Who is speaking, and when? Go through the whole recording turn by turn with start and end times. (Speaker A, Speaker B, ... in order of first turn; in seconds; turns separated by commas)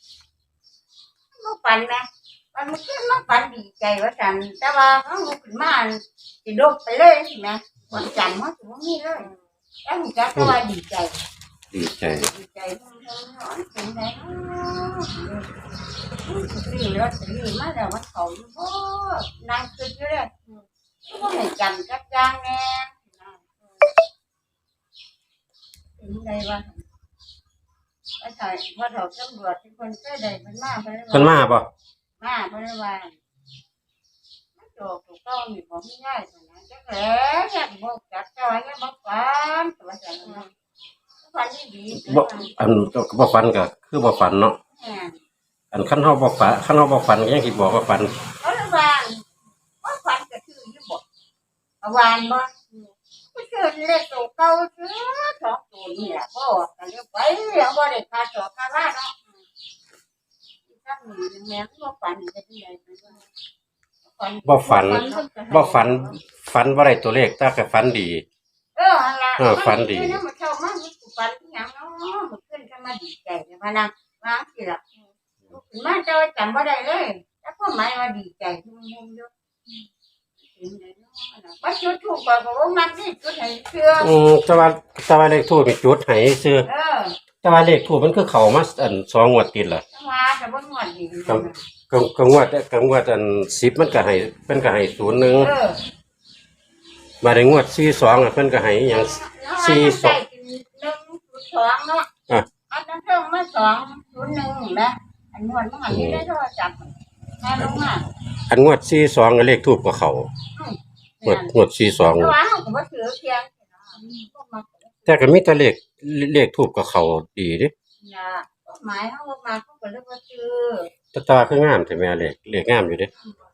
Speaker A: 1.4-9.3, Speaker A: 9.8-11.2, Speaker B: 11.7-12.3, Speaker A: 12.1-15.5, Speaker A: 16.2-20.3, Speaker A: 21.1-23.4, Speaker A: 26.0-26.8, Speaker A: 28.2-31.4, Speaker B: 31.1-31.7, Speaker A: 32.2-33.1, Speaker A: 34.6-40.5, Speaker A: 41.2-42.5, Speaker B: 41.9-44.6, Speaker A: 44.7-45.2, Speaker B: 45.7-48.1, Speaker A: 48.4-49.2, Speaker A: 49.8-51.0, Speaker A: 51.8-52.5, Speaker A: 53.3-59.1, Speaker A: 60.7-63.2, Speaker A: 64.0-66.2, Speaker B: 64.4-68.2, Speaker A: 68.8-74.8, Speaker B: 69.4-70.2, Speaker A: 75.5-79.3, Speaker A: 80.5-84.1, Speaker B: 84.0-86.7, Speaker A: 86.7-87.2, Speaker B: 87.4-89.8, Speaker A: 89.9-91.6, Speaker B: 91.3-95.5, Speaker A: 95.3-95.8, Speaker B: 97.2-100.2, Speaker A: 98.9-102.1, Speaker A: 102.7-108.0, Speaker B: 105.9-106.2, Speaker B: 108.5-110.3, Speaker A: 110.5-115.2, Speaker B: 111.2-112.3, Speaker B: 115.1-117.7, Speaker A: 118.0-120.9, Speaker B: 121.1-123.1